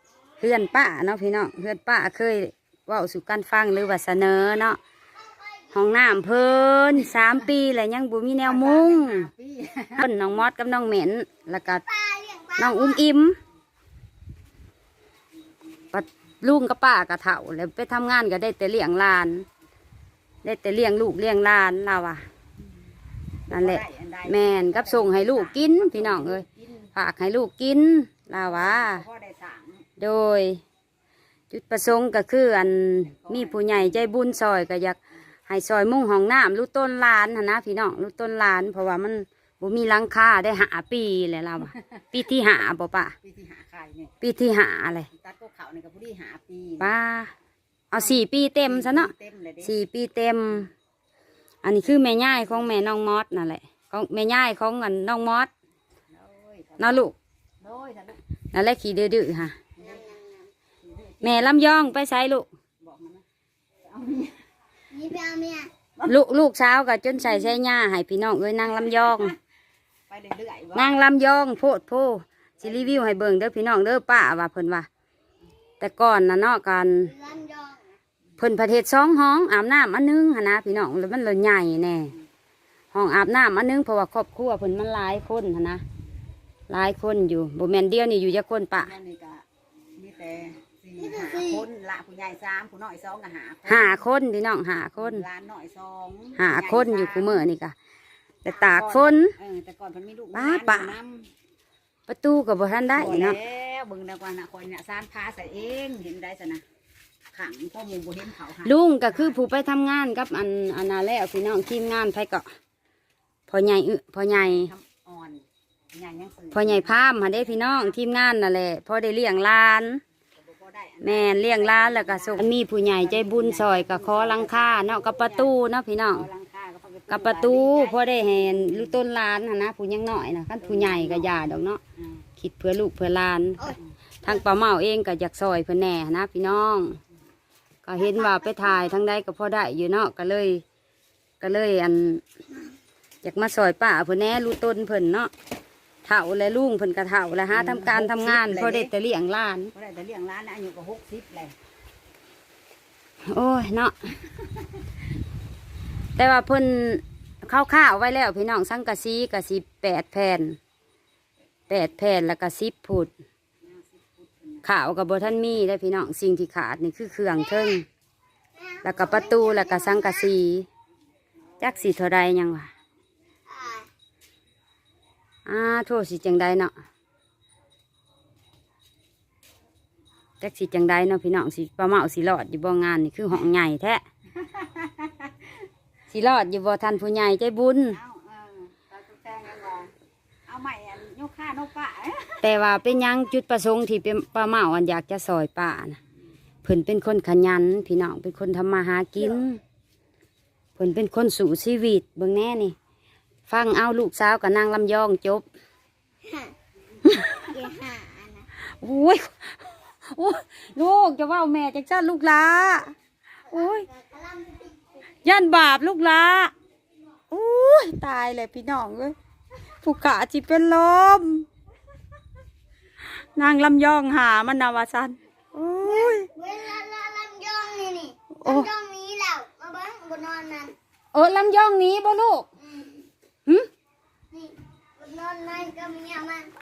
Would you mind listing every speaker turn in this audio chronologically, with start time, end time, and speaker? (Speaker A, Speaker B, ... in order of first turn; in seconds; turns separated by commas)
Speaker A: 0.4-4.8, Speaker A: 5.7-9.3, Speaker B: 8.4-10.1, Speaker A: 9.9-11.8, Speaker C: 11.8-13.0, Speaker A: 12.6-13.4, Speaker A: 15.9-19.4, Speaker A: 20.4-22.2, Speaker B: 23.5-26.9, Speaker A: 23.5-29.0, Speaker B: 28.3-29.8, Speaker A: 30.0-30.6, Speaker A: 31.5-43.1, Speaker B: 33.2-33.8, Speaker B: 43.2-44.1, Speaker A: 44.2-45.1, Speaker B: 45.1-46.9, Speaker A: 46.8-47.3, Speaker A: 47.9-49.1, Speaker B: 48.6-49.7, Speaker A: 49.6-50.7, Speaker A: 51.6-55.5, Speaker B: 56.1-57.0, Speaker A: 56.8-57.1, Speaker B: 57.6-58.2, Speaker A: 58.5-59.6, Speaker B: 59.8-60.0, Speaker C: 59.8-60.5, Speaker B: 60.8-61.8, Speaker A: 61.2-62.5, Speaker B: 62.8-63.2, Speaker B: 63.9-64.4, Speaker C: 64.9-65.7, Speaker A: 66.0-69.3, Speaker B: 68.9-69.3, Speaker B: 70.1-71.0, Speaker A: 70.7-74.9, Speaker B: 72.6-73.0, Speaker A: 75.8-77.1, Speaker C: 77.0-78.0, Speaker A: 78.4-82.1, Speaker A: 82.9-85.8, Speaker A: 86.7-88.9, Speaker B: 88.8-89.4, Speaker B: 90.0-94.0, Speaker C: 91.0-91.6, Speaker A: 93.7-95.2, Speaker B: 95.0-97.4, Speaker A: 96.3-97.7, Speaker A: 98.4-99.3, Speaker B: 98.5-101.3, Speaker A: 100.3-100.9, Speaker A: 102.1-103.4, Speaker B: 102.9-106.6, Speaker B: 107.3-109.4, Speaker A: 108.6-112.5, Speaker A: 113.5-114.7, Speaker B: 114.3-118.0, Speaker A: 116.5-120.0, Speaker B: 120.4-125.5, Speaker A: 121.0-126.3, Speaker B: 126.1-129.0, Speaker A: 127.1-131.8, Speaker B: 130.6-131.3, Speaker A: 132.4-137.0, Speaker A: 137.8-140.6, Speaker A: 141.4-142.2, Speaker A: 143.2-145.3, Speaker A: 146.0-149.7, Speaker B: 147.5-148.9, Speaker B: 149.7-151.5, Speaker A: 153.3-153.9, Speaker A: 156.2-160.6, Speaker A: 161.7-163.1, Speaker B: 163.6-164.6, Speaker A: 164.6-167.8, Speaker C: 168.6-170.3, Speaker A: 168.8-170.7, Speaker A: 171.6-172.7, Speaker C: 173.5-173.9, Speaker A: 175.4-176.7, Speaker A: 180.4-184.0, Speaker B: 184.3-185.4, Speaker A: 186.1-188.0, Speaker B: 187.9-189.9, Speaker B: 190.5-192.5, Speaker A: 192.4-196.0, Speaker A: 196.6-199.6, Speaker A: 200.8-202.8, Speaker A: 203.5-205.4, Speaker C: 206.2-206.5, Speaker A: 207.0-207.5, Speaker C: 207.4-208.5, Speaker A: 208.7-209.6, Speaker A: 210.1-212.9, Speaker A: 213.5-213.9, Speaker C: 213.5-214.8, Speaker A: 215.2-216.5, Speaker A: 217.3-219.2, Speaker A: 219.8-221.5, Speaker A: 223.3-226.3, Speaker C: 225.8-230.7, Speaker A: 228.4-228.7, Speaker A: 231.1-232.5, Speaker C: 232.6-233.1, Speaker C: 234.3-236.5